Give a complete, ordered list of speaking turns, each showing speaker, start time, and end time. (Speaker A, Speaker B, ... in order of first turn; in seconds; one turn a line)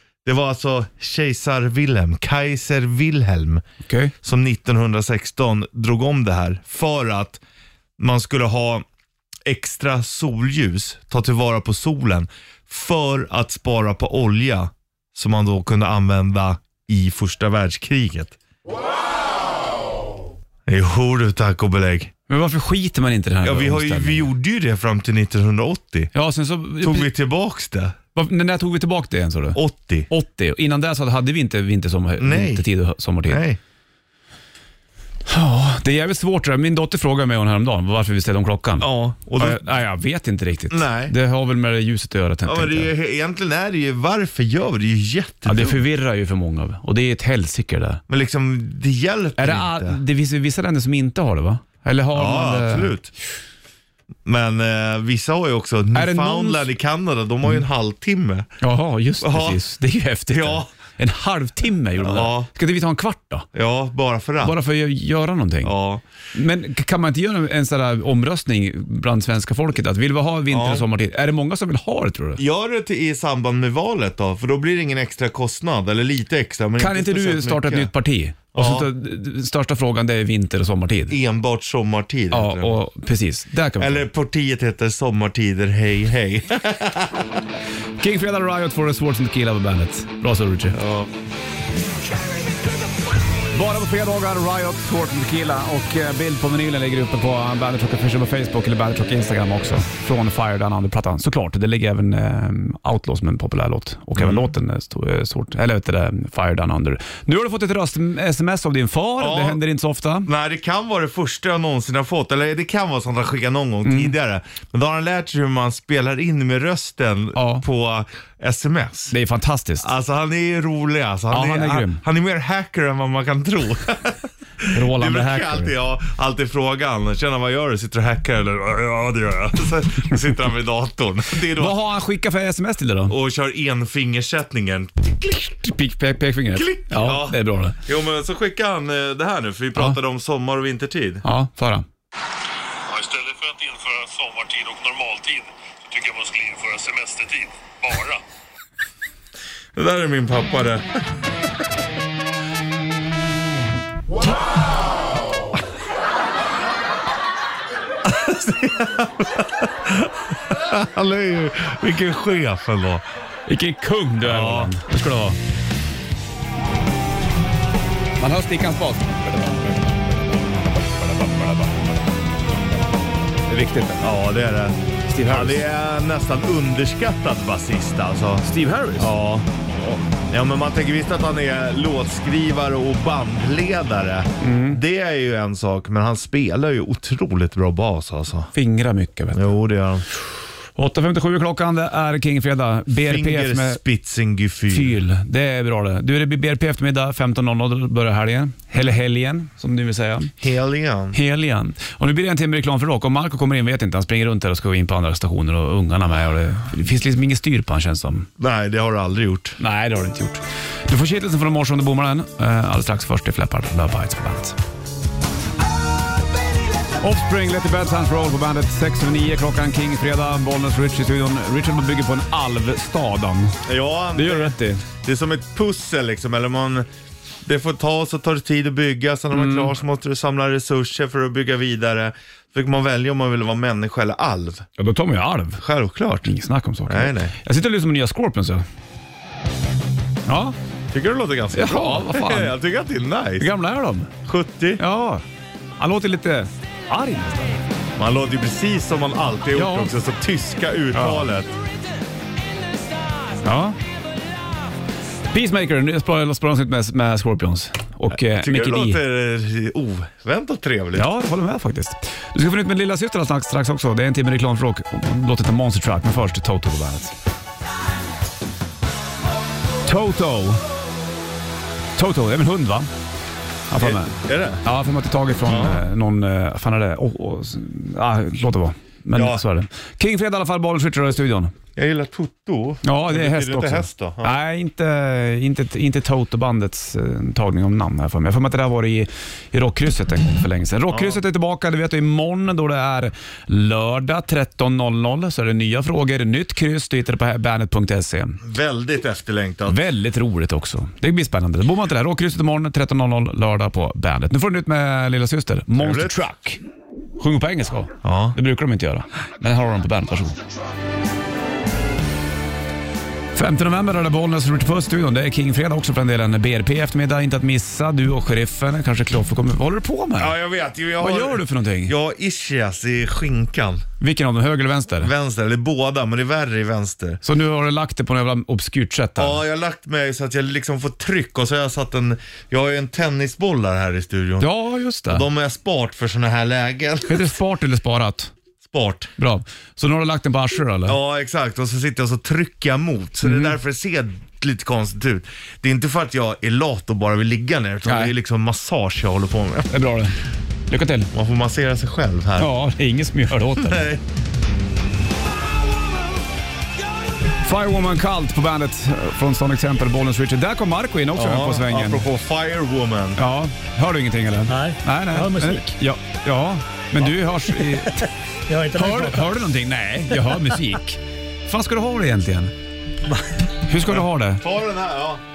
Speaker A: 0.2-3.6
Speaker B: 3.8-4.1
Speaker A: 4.2-7.4
Speaker A: 8.0-8.8
Speaker A: 9.4-18.4
Speaker A: 20.7-22.1
Speaker B: 22.3-24.3
Speaker A: 23.4-26.1
Speaker B: 26.1-27.1
Speaker A: 26.8-28.0
Speaker B: 28.1-33.4
Speaker A: 29.5-30.1
Speaker A: 32.2-32.6
Speaker A: 33.2-33.6
Speaker B: 35.3-42.9
Speaker A: 38.8-39.7
Speaker A: 40.7-41.1
Speaker A: 42.5-45.8
Speaker B: 45.5-48.0
Speaker A: 48.1-50.0
Speaker B: 49.4-52.9
Speaker A: 52.1-53.1
Speaker A: 54.2-58.5
Speaker B: 55.9-56.7
Speaker B: 58.6-63.5
Speaker A: 59.2-59.6
Speaker A: 60.3-60.7
Speaker A: 62.0-62.5
Speaker A: 63.5-64.6
Speaker B: 64.4-65.7
Speaker A: 65.6-66.0
Speaker B: 66.3-72.4
Speaker A: 70.5-70.8
Speaker A: 72.4-77.9
Speaker B: 76.8-81.1
Speaker A: 78.5-78.9
Speaker A: 81.1-82.8
Speaker B: 82.3-84.0
Speaker A: 83.8-87.2
Speaker B: 88.0-90.8
Speaker A: 90.7-91.1
Speaker B: 93.5-110.3
Speaker A: 104.2-104.5
Speaker A: 109.2-109.6
Speaker A: 110.2-119.1
Speaker B: 113.8-114.1
Speaker B: 117.3-117.6
Speaker B: 119.1-119.9
Speaker A: 119.8-131.8
Speaker B: 121.3-122.0
Speaker B: 124.7-125.7
Speaker B: 131.5-133.1
Speaker A: 133.1-135.4
Speaker B: 135.3-137.8
Speaker A: 136.5-141.2
Speaker B: 141.2-141.8
Speaker C: 142.9-148.2
Speaker A: 149.7-151.0
Speaker A: 158.0-163.0
Speaker B: 163.5-165.4
Speaker A: 164.2-164.7
Speaker B: 168.2-169.9
Speaker B: 171.0-171.8
Speaker B: 173.5-174.1
Speaker A: 174.0-178.4
Speaker B: 175.1-175.6
Speaker B: 178.4-179.1
Speaker A: 179.0-188.5
Speaker B: 184.4-184.8
Speaker B: 188.5-189.5
Speaker A: 189.3-190.0
Speaker B: 190.8-193.8
Speaker A: 192.9-195.0
Speaker B: 194.7-200.3
Speaker A: 200.4-201.2
Speaker B: 201.1-208.3
Speaker A: 208.4-209.6
Speaker B: 209.6-214.6
Speaker B: 217.0-223.6
Speaker A: 223.7-226.9
Speaker B: 224.1-224.8
Speaker A: 227.4-234.6
Speaker B: 229.3-229.7
Speaker B: 234.8-235.6
Speaker A: 235.6-236.3
Speaker B: 236.2-238.6
Speaker A: 236.9-237.3
Speaker B: 240.2-240.6
Speaker A: 240.9-243.5
Speaker B: 241.5-242.6
Speaker B: 243.4-244.1
Speaker A: 244.2-244.8
Speaker B: 244.8-245.2
Speaker B: 245.8-247.6
Speaker A: 248.0-251.5
Speaker B: 249.5-249.9
Speaker B: 250.9-251.3
Speaker B: 253.4-253.8
Speaker B: 255.3-259.0
Speaker A: 258.1-261.1
Speaker B: 260.9-267.1
Speaker B: 269.8-270.6
Speaker B: 272.0-272.9
Speaker B: 273.7-281.5
Speaker A: 273.8-274.6
Speaker A: 275.5-275.8
Speaker A: 279.1-279.4
Speaker A: 281.8-284.3
Speaker B: 282.8-298.4
Speaker A: 290.9-291.2
Speaker A: 298.4-299.8
Speaker B: 299.7-306.6
Speaker A: 305.8-306.2
Speaker B: 307.2-310.4
Speaker A: 308.0-308.4
Speaker B: 313.3-320.3
Speaker A: 320.2-323.8
Speaker B: 321.0-321.9
Speaker B: 324.0-325.1
Speaker A: 325.0-327.2
Speaker B: 327.2-329.4
Speaker A: 329.2-334.5
Speaker B: 334.4-335.2
Speaker A: 335.1-337.3
Speaker B: 337.1-338.3
Speaker A: 338.6-339.1
Speaker B: 339.2-341.0
Speaker A: 340.9-349.8
Speaker B: 343.2-343.5
Speaker B: 347.9-348.1
Speaker B: 349.7-350.1
Speaker B: 350.7-351.1
Speaker A: 351.1-352.5
Speaker B: 352.4-353.9
Speaker A: 353.5-354.0
Speaker B: 357.4-362.0
Speaker A: 361.1-363.2
Speaker B: 363.2-368.0
Speaker D: 364.5-365.7
Speaker D: 367.5-369.4
Speaker B: 368.7-372.5
Speaker D: 370.3-370.6
Speaker B: 373.6-374.4
Speaker A: 373.8-375.2